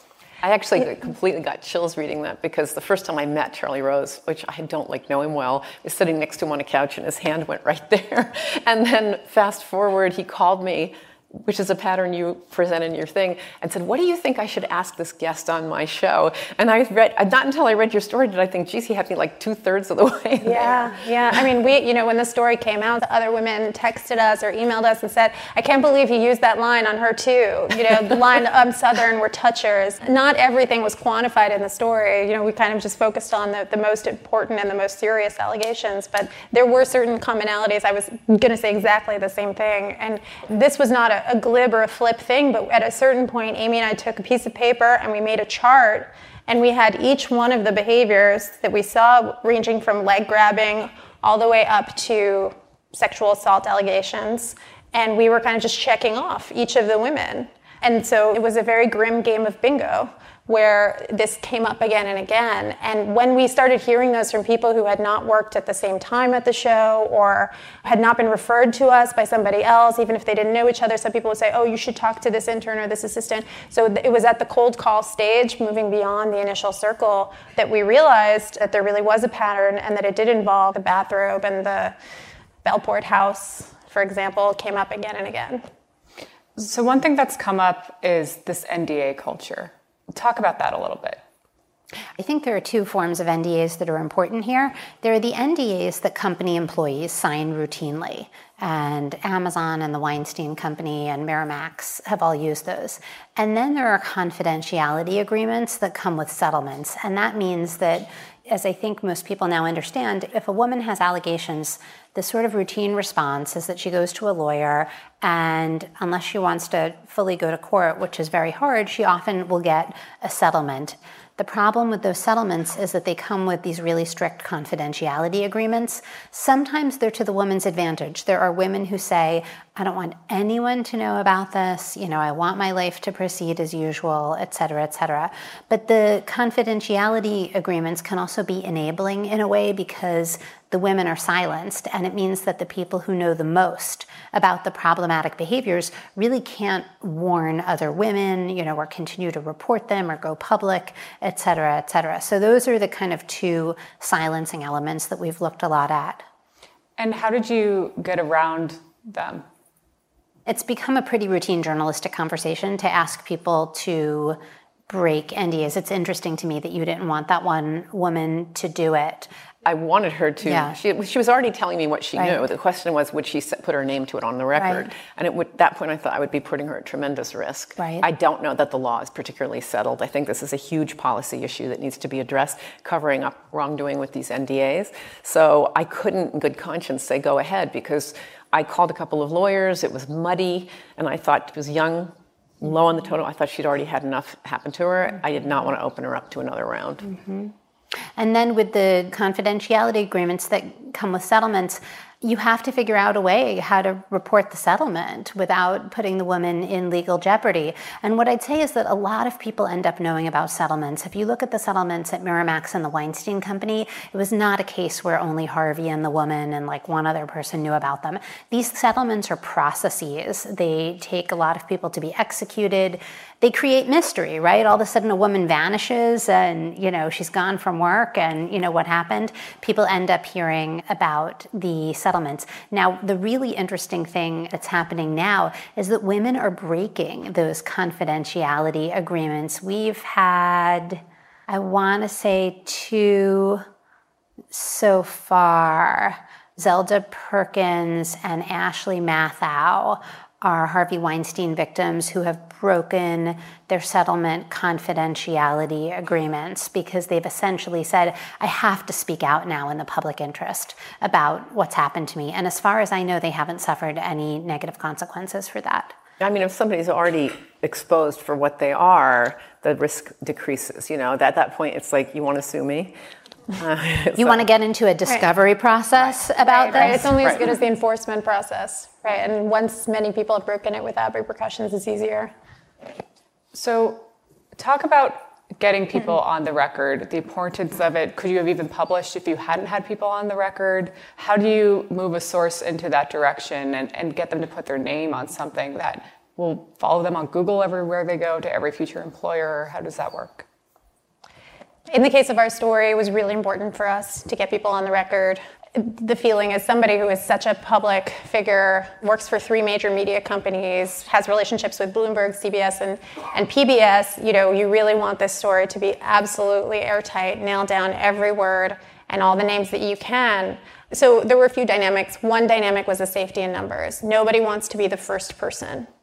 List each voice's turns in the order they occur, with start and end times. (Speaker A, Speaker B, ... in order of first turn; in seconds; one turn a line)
Speaker A: 0.4-20.9
Speaker B: 20.4-81.9
Speaker B: 82.6-85.6
Speaker C: 86.6-91.2
Speaker D: 92.2-156.2
Speaker C: 157.0-159.4
Speaker D: 160.5-164.4
Speaker D: 164.9-169.3
Speaker A: 169.6-197.0
Speaker D: 170.4-170.8
Speaker D: 174.5-174.9
Speaker D: 177.8-178.1
Speaker D: 197.1-197.5
Speaker D: 198.2-243.6
Speaker D: 244.5-265.9
Speaker A: 266.2-272.9
Speaker A: 273.6-274.4
Speaker D: 274.2-277.4
Speaker B: 276.4-282.3
Speaker C: 283.5-284.0
Speaker C: 284.6-300.4
Speaker B: 301.9-325.9